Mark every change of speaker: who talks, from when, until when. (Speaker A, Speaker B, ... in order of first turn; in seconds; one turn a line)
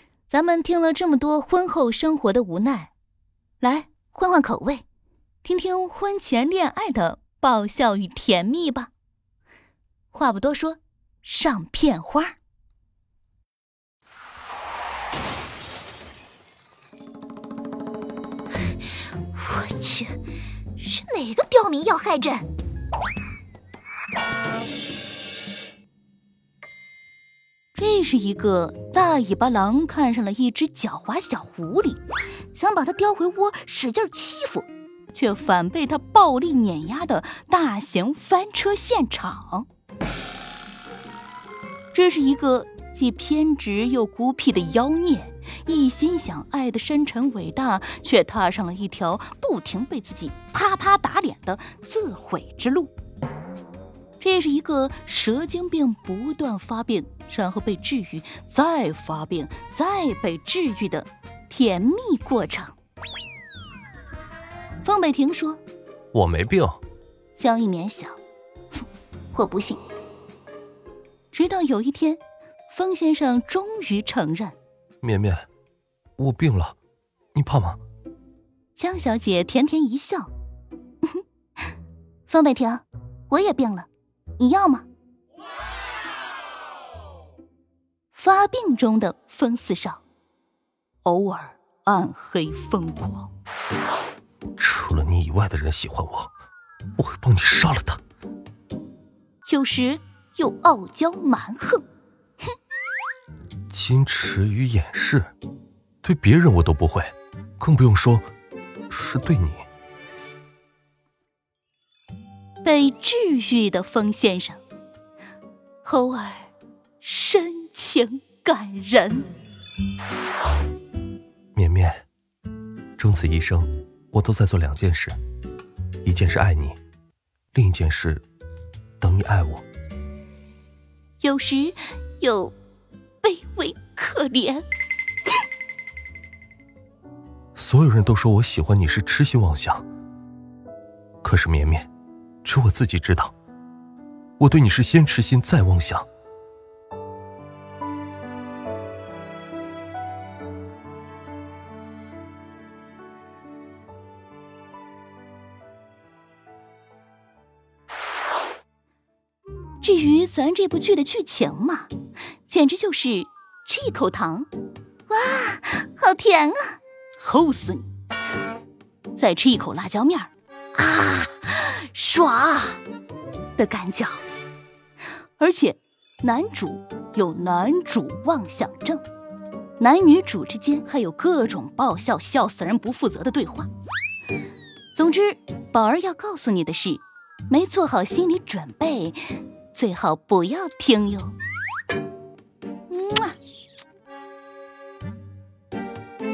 Speaker A: 0.3-2.9
Speaker A: 3.6-4.8
Speaker A: 5.4-8.9
Speaker A: 10.1-12.3
Speaker A: 19.3-20.2
Speaker A: 20.8-22.4
Speaker A: 27.8-32.0
Speaker A: 32.5-39.6
Speaker A: 41.9-52.9
Speaker A: 54.2-62.7
Speaker A: 64.8-65.6
Speaker B: 66.1-66.8
Speaker A: 67.3-68.2
Speaker A: 69.3-69.8
Speaker A: 71.3-74.5
Speaker B: 75.0-75.5
Speaker B: 76.2-76.8
Speaker B: 77.3-77.8
Speaker A: 78.8-80.3
Speaker A: 82.3-84.8
Speaker A: 88.1-90.0
Speaker A: 91.0-93.3
Speaker B: 94.6-96.3
Speaker B: 97.0-98.0
Speaker A: 99.5-101.8
Speaker B: 103.7-105.3
Speaker B: 106.0-108.3
Speaker B: 108.9-109.6
Speaker A: 112.6-114.6
Speaker A: 115.8-116.5
Speaker A: 117.0-119.3
Speaker B: 121.5-122.0
Speaker B: 123.0-125.2
Speaker B: 126.0-126.8
Speaker B: 127.5-128.2
Speaker B: 129.0-129.6
Speaker A: 131.2-132.6
Speaker A: 133.2-134.6
Speaker B: 137.5-139.8
Speaker B: 141.2-141.9
Speaker B: 142.4-143.3
Speaker B: 144.4-146.1
Speaker A: 159.8-161.9
Speaker A: 162.5-164.5
Speaker A: 165.1-167.9
Speaker A: 169.2-172.8
Speaker A: 173.6-174.2
Speaker A: 175.4-179.0
Speaker A: 179.8-183.7
Speaker A: 184.9-189.2
Speaker A: 189.7-191.3
Speaker A: 192.9-193.3